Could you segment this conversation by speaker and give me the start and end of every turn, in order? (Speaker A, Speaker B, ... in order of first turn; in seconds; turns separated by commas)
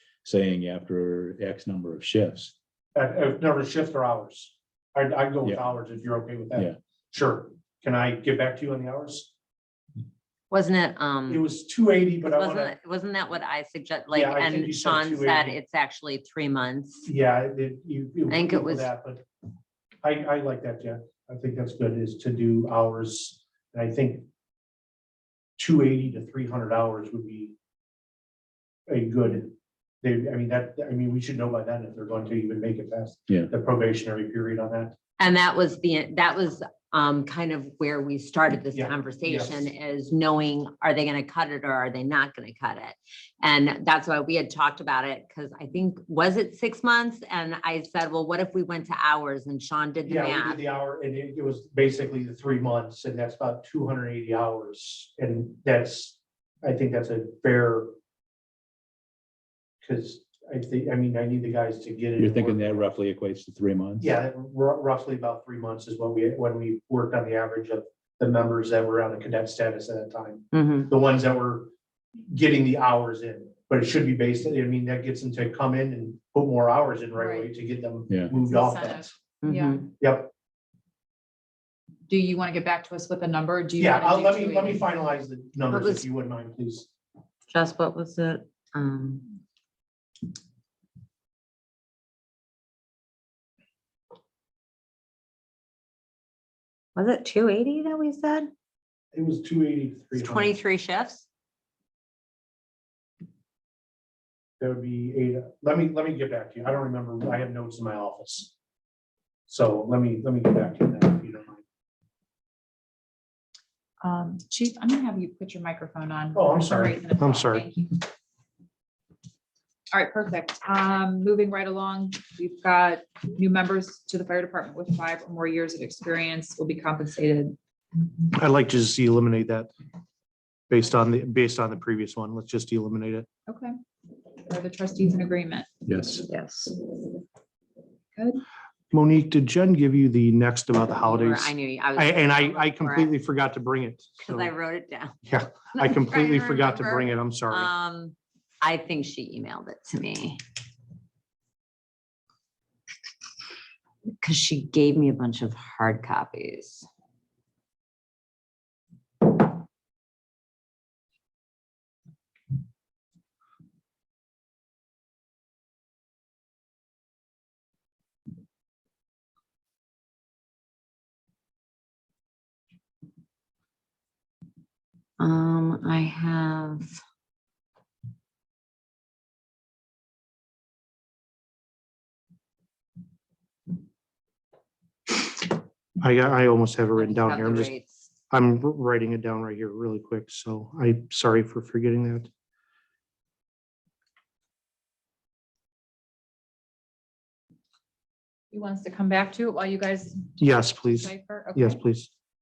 Speaker A: 0.2-2.5, Speaker B: 3.0-9.3, Speaker C: 10.5-11.4, Speaker B: 11.3-12.8, Speaker C: 12.2-17.1, Speaker B: 14.1-15.6, Speaker B: 17.1-19.2, Speaker C: 18.3-18.9, Speaker B: 20.0-24.3, Speaker B: 25.6-27.5, Speaker B: 28.9-35.0, Speaker C: 35.2-50.6, Speaker B: 38.7-39.7, Speaker B: 50.0-57.9, Speaker B: 59.8-62.9, Speaker A: 62.2-64.1, Speaker B: 64.0-71.7, Speaker C: 70.5-70.9, Speaker B: 72.2-79.1, Speaker D: 77.2-77.5, Speaker A: 78.1-78.3, Speaker D: 78.5-79.8, Speaker C: 79.4-79.8, Speaker B: 80.0-80.3, Speaker D: 82.1-84.9, Speaker B: 83.8-86.9, Speaker C: 85.7-86.1, Speaker C: 87.5-89.3, Speaker C: 97.0-98.5, Speaker B: 99.1-100.6, Speaker C: 100.2-101.2, Speaker B: 104.6-108.5, Speaker B: 109.5-111.6, Speaker D: 114.0-118.0, Speaker B: 116.3-117.7, Speaker D: 119.9-127.6, Speaker B: 128.3-129.7, Speaker B: 130.7-133.3, Speaker D: 133.5-133.8, Speaker D: 134.4-135.7, Speaker A: 135.9-136.2, Speaker C: 136.3-136.8, Speaker D: 138.2-138.4, Speaker B: 138.9-144.5, Speaker C: 141.0-143.1, Speaker C: 144.2-145.2, Speaker B: 145.3-147.7, Speaker C: 145.8-150.4, Speaker C: 154.2-156.9, Speaker C: 175.2-177.0, Speaker B: 186.0-187.7, Speaker C: 187.0-188.1, Speaker B: 188.3-192.3, Speaker D: 198.5-200.4, Speaker B: 200.4-202.1, Speaker D: 201.0-201.8